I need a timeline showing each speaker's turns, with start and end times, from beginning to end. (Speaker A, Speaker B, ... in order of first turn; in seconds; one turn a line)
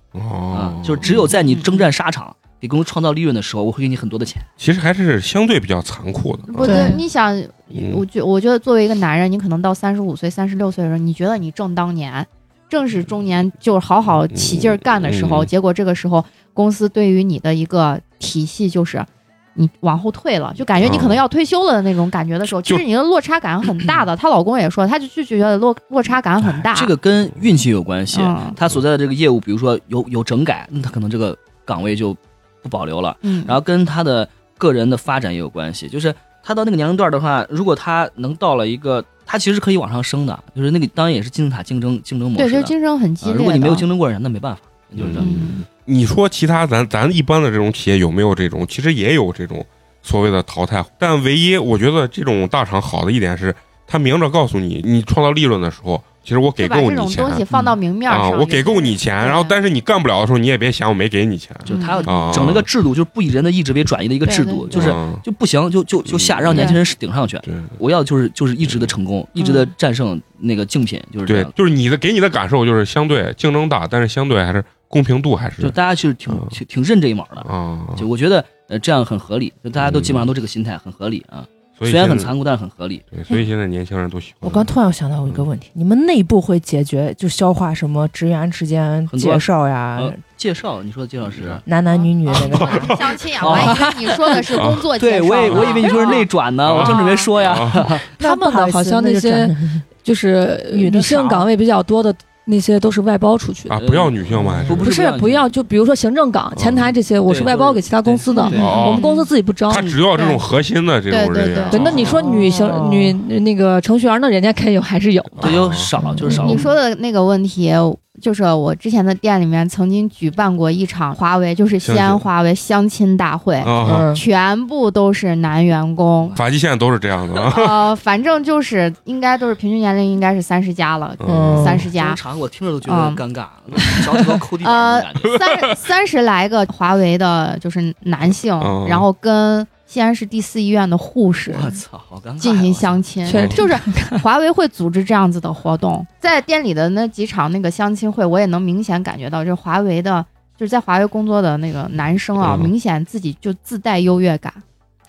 Speaker A: 0.1-1.3
Speaker B: 0.5-4.5
Speaker C: 1.3-1.9
Speaker A: 4.6-6.9
Speaker C: 6.5-26.9
Speaker D: 6.6-7.0
Speaker A: 7.7-8.0
Speaker A: 14.3-15.5
Speaker A: 20.8-21.2
Speaker B: 26.5-45.4
Speaker C: 28.1-28.6
Speaker C: 33.2-33.6
Speaker C: 42.4-43.9
Speaker A: 45.0-57.4
Speaker C: 45.2-45.6
Speaker C: 56.6-59.5
Speaker A: 58.1-62.7
Speaker C: 61.7-62.5
Speaker B: 61.7-71.5
Speaker C: 64.2-65.0
Speaker A: 64.7-65.2
Speaker A: 66.1-66.8
Speaker C: 66.5-66.8
Speaker A: 67.4-67.8
Speaker A: 68.6-68.9
Speaker C: 69.4-69.7
Speaker A: 71.2-75.8
Speaker B: 75.6-83.0
Speaker A: 77.4-78.1
Speaker A: 79.8-80.3
Speaker A: 81.8-82.3
Speaker A: 83.1-84.7
Speaker E: 84.4-90.2
Speaker B: 89.1-91.6
Speaker A: 91.3-91.6
Speaker E: 91.6-93.5
Speaker C: 91.9-97.3
Speaker A: 92.4-93.7
Speaker B: 93.4-93.8
Speaker A: 94.5-94.8
Speaker B: 95.0-98.0
Speaker A: 95.4-95.8
Speaker A: 96.6-97.9
Speaker D: 98.2-103.8
Speaker E: 98.2-99.8
Speaker E: 100.7-101.5
Speaker A: 103.7-104.8
Speaker B: 103.8-105.5
Speaker E: 104.3-104.8
Speaker D: 104.8-109.9
Speaker A: 106.5-106.9
Speaker B: 107.2-109.0
Speaker C: 108.3-109.3
Speaker A: 108.6-109.0
Speaker A: 109.7-112.2
Speaker C: 110.1-110.4
Speaker C: 111.1-112.2
Speaker D: 111.7-115.6
Speaker B: 111.7-112.2
Speaker E: 112.0-113.2
Speaker A: 115.4-115.9
Speaker B: 115.4-116.7
Speaker E: 116.0-116.5
Speaker C: 116.3-126.4
Speaker A: 121.8-122.2
Speaker A: 123.6-124.1
Speaker E: 123.8-124.2
Speaker B: 126.2-126.4
Speaker A: 126.3-127.9
Speaker C: 127.3-132.2
Speaker A: 131.2-131.9
Speaker E: 131.2-131.9
Speaker B: 131.9-135.3
Speaker C: 132.8-133.2
Speaker C: 134.6-141.8
Speaker A: 138.6-139.1
Speaker B: 141.5-143.0
Speaker C: 142.4-154.6
Speaker D: 143.2-144.2
Speaker A: 152.4-152.7